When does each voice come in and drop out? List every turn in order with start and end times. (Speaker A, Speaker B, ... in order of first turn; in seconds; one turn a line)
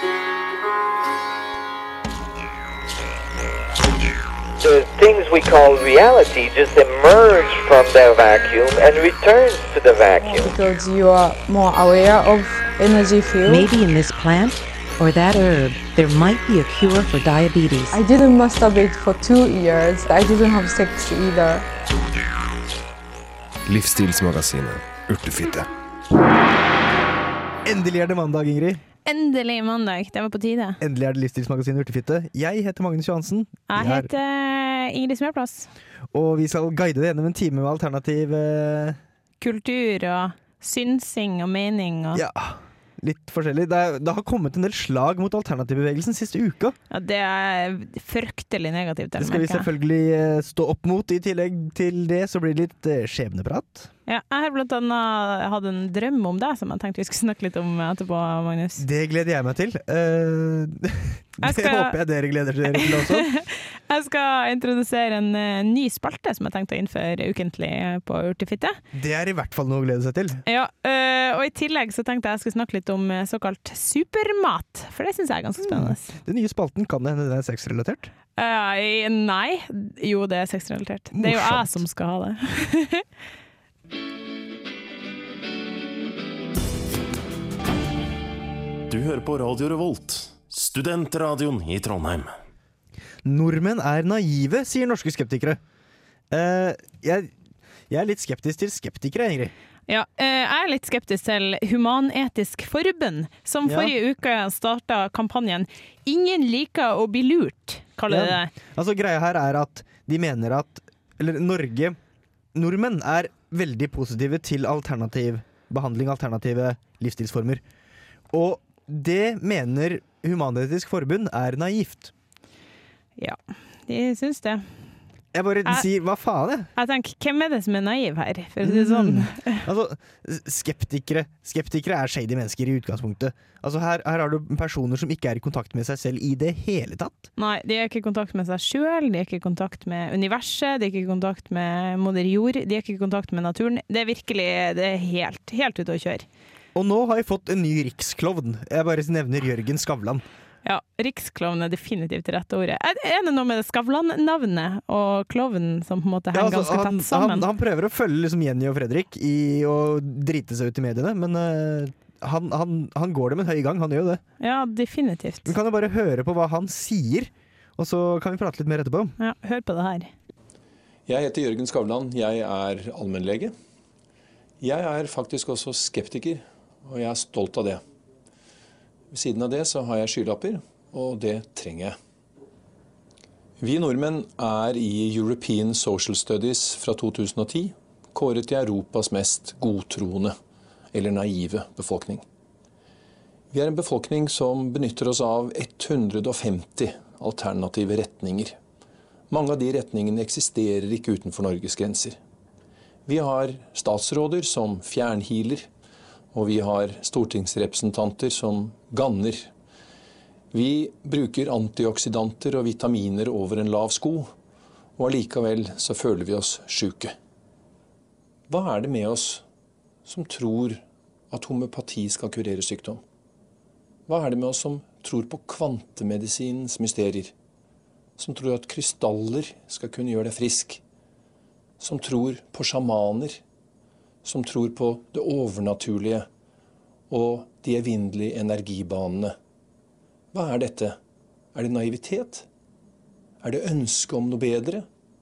Speaker A: 4.6-10.5
Speaker B: 10.2-13.7
Speaker C: 13.4-18.0
Speaker B: 17.9-21.6
Speaker D: 23.6-25.7
Speaker E: 27.6-28.8
Speaker F: 29.0-30.8
Speaker E: 30.8-34.1
Speaker F: 33.7-35.7
Speaker E: 36.1-39.0
Speaker F: 39.4-42.2
Speaker E: 42.1-46.8
Speaker F: 46.9-49.7
Speaker E: 49.2-53.9
Speaker F: 54.1-58.8
Speaker E: 58.8-63.3
Speaker F: 61.4-62.0
Speaker F: 62.7-68.8
Speaker E: 68.9-70.4
Speaker F: 70.4-76.2
Speaker E: 75.6-78.1
Speaker F: 78.4-83.0
Speaker E: 81.1-81.8
Speaker G: 88.9-92.3
Speaker E: 93.2-95.6
Speaker E: 96.3-97.3
Speaker E: 97.9-99.5
Speaker F: 99.9-108.5
Speaker E: 103.7-103.9
Speaker E: 108.1-112.0
Speaker E: 112.5-117.6
Speaker E: 118.3-122.1
Speaker F: 123.2-124.7
Speaker E: 125.3-126.7
Speaker F: 126.8-129.6
Speaker E: 128.6-137.2
Speaker F: 137.4-146.2
Speaker E: 146.7-150.2
Speaker F: 150.6-157.5
Speaker E: 156.3-164.2
Speaker F: 164.4-165.5
Speaker E: 165.4-169.2
Speaker F: 169.2-170.1
Speaker H: 171.1-173.5
Speaker H: 174.6-177.8
Speaker H: 179.1-181.9
Speaker H: 183.6-190.3
Speaker H: 190.9-192.2
Speaker H: 193.5-198.6
Speaker H: 199.3-202.2
Speaker H: 203.1-205.7
Speaker H: 206.3-209.5
Speaker H: 210.5-214.3
Speaker H: 215.0-217.1
Speaker H: 218.5-219.4
Speaker H: 220.1-223.0
Speaker H: 224.1-227.3
Speaker H: 228.2-230.8
Speaker H: 231.8-233.4
Speaker H: 234.2-236.3
Speaker H: 237.1-239.3
Speaker H: 240.3-240.9
Speaker H: 241.5-242.4
Speaker H: 243.4-244.8